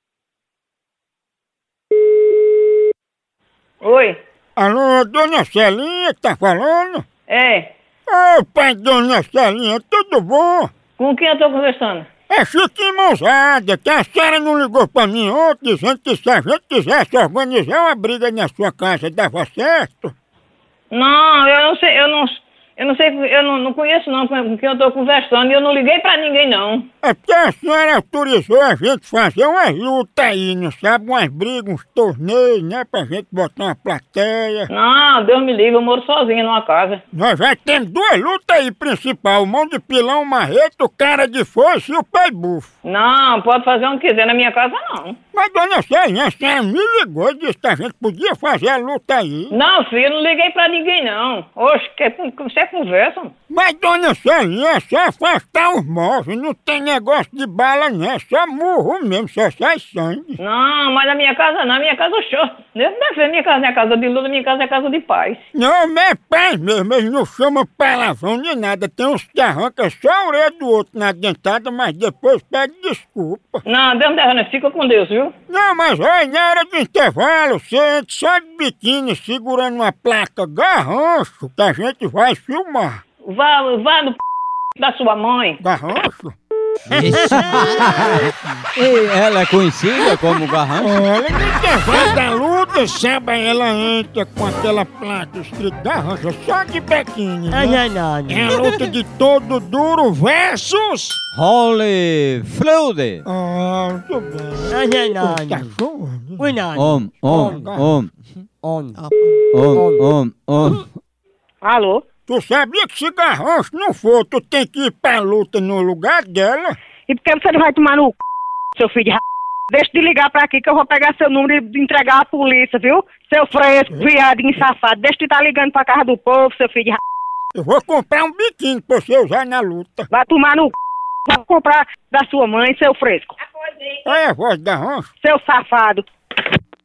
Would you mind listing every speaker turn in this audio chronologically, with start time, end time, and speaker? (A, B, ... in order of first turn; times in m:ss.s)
0:03.8-0:04.2 A
0:04.6-0:07.0 B
0:07.3-0:07.7 A
0:08.1-0:10.7 B
0:11.0-0:12.1 A
0:12.3-0:20.1 B
0:20.9-0:26.9 A
0:27.0-0:34.7 B
0:34.7-0:37.0 A
0:37.1-0:42.7 B
0:42.8-0:45.2 A
0:45.3-0:49.6 B
0:49.5-0:53.3 A
0:53.5-1:00.4 B
1:00.4-1:05.4 A
1:05.5-1:13.6 B
1:13.7-1:15.3 A
1:15.5-1:23.0 B
1:23.2-1:24.2 A
1:24.8-1:25.6 A
1:25.6-1:26.4 B
1:26.9-1:31.0 C
1:26.9-1:27.8 D
1:30.8-1:41.2 B
1:37.5-1:38.7 D
1:41.3-1:43.2 C
1:43.3-1:46.6 B
1:44.7-1:45.7 D
1:46.4-1:47.7 D
1:46.7-1:48.1 C
1:47.2-1:47.9 B
1:48.6-1:49.0 D
1:49.5-1:50.8 C
1:49.7-1:50.1 D
1:51.6-1:52.0 E
1:52.3-1:56.8 B
1:57.1-1:58.2 E
1:58.8-2:07.0 E
2:07.6-2:10.1 B
2:10.1-2:10.7 E
2:11.3-2:13.4 E
2:14.0-2:15.1 B
2:15.2-2:16.0 E